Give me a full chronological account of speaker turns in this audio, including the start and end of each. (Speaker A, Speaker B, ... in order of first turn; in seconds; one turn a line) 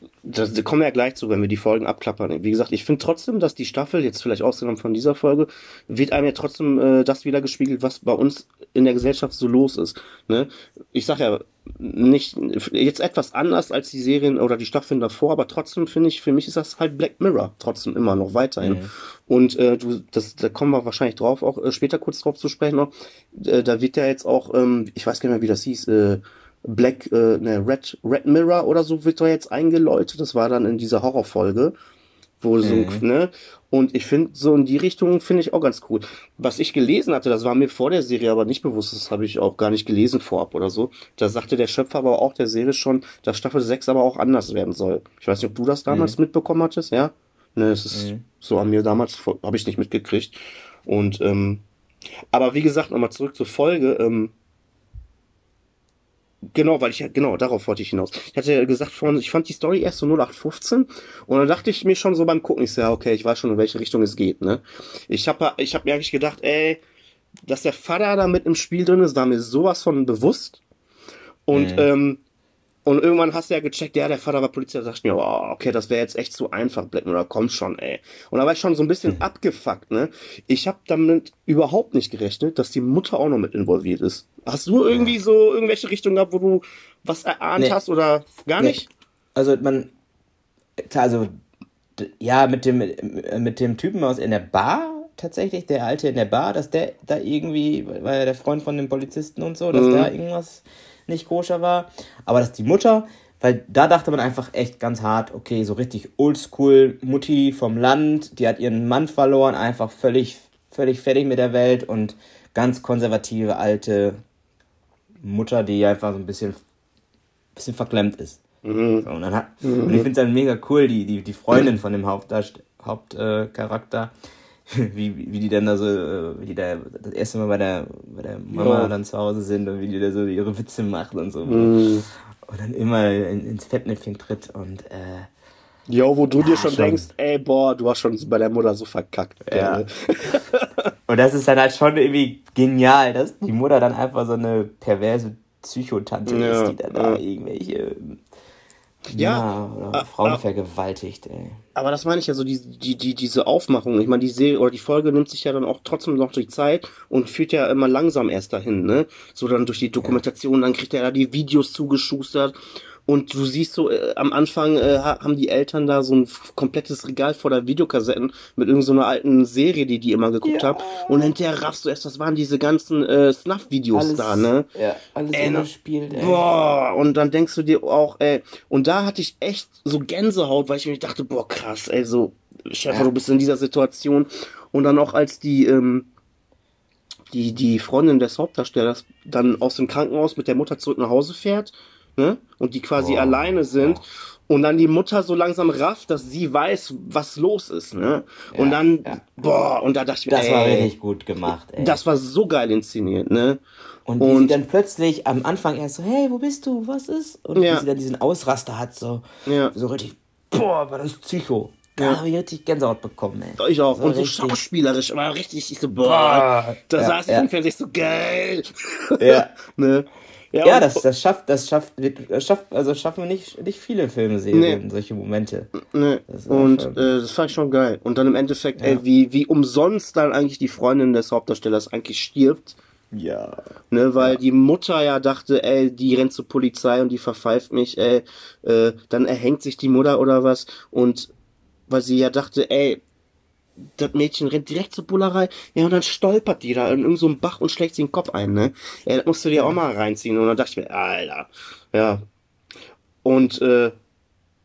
Speaker A: 0.2-31.8
Speaker B: 18.6-18.9
Speaker A: 32.4-51.6
Speaker B: 32.6-33.0
Speaker B: 45.9-46.2
Speaker B: 47.9-48.2
Speaker A: 52.3-54.3
Speaker A: 56.5-66.8
Speaker A: 67.5-70.6
Speaker A: 71.5-72.2
Speaker B: 71.5-71.9
Speaker A: 72.9-88.9
Speaker B: 89.3-89.9
Speaker B: 90.8-91.3
Speaker B: 92.0-114.2
Speaker A: 99.7-100.1
Speaker B: 115.2-116.6
Speaker B: 117.6-118.4
Speaker A: 118.6-119.1
Speaker B: 119.0-124.1
Speaker A: 119.6-120.1
Speaker B: 124.7-131.8
Speaker A: 128.5-128.9
Speaker A: 131.5-132.1
Speaker B: 132.5-135.3
Speaker A: 135.9-140.7
Speaker B: 136.4-137.1
Speaker B: 139.5-139.8
Speaker B: 141.1-148.2
Speaker A: 146.3-147.2
Speaker A: 149.1-150.4
Speaker B: 149.1-151.6
Speaker A: 151.8-162.6
Speaker A: 163.1-174.7
Speaker B: 170.4-171.3
Speaker B: 173.9-176.4
Speaker A: 175.3-186.1
Speaker A: 187.3-200.9
Speaker B: 193.0-194.0
Speaker B: 198.5-199.2
Speaker B: 200.3-202.0
Speaker A: 201.8-203.6
Speaker B: 204.1-214.6
Speaker A: 204.2-204.6
Speaker A: 207.6-207.8
Speaker A: 209.5-209.8
Speaker A: 213.6-221.0
Speaker B: 216.0-217.5
Speaker B: 219.2-219.5
Speaker B: 220.6-225.7
Speaker A: 224.5-224.8
Speaker A: 225.8-232.8
Speaker B: 226.3-227.0
Speaker B: 233.1-233.6
Speaker A: 233.9-241.3
Speaker A: 241.9-243.0
Speaker A: 244.0-252.2
Speaker A: 253.2-253.9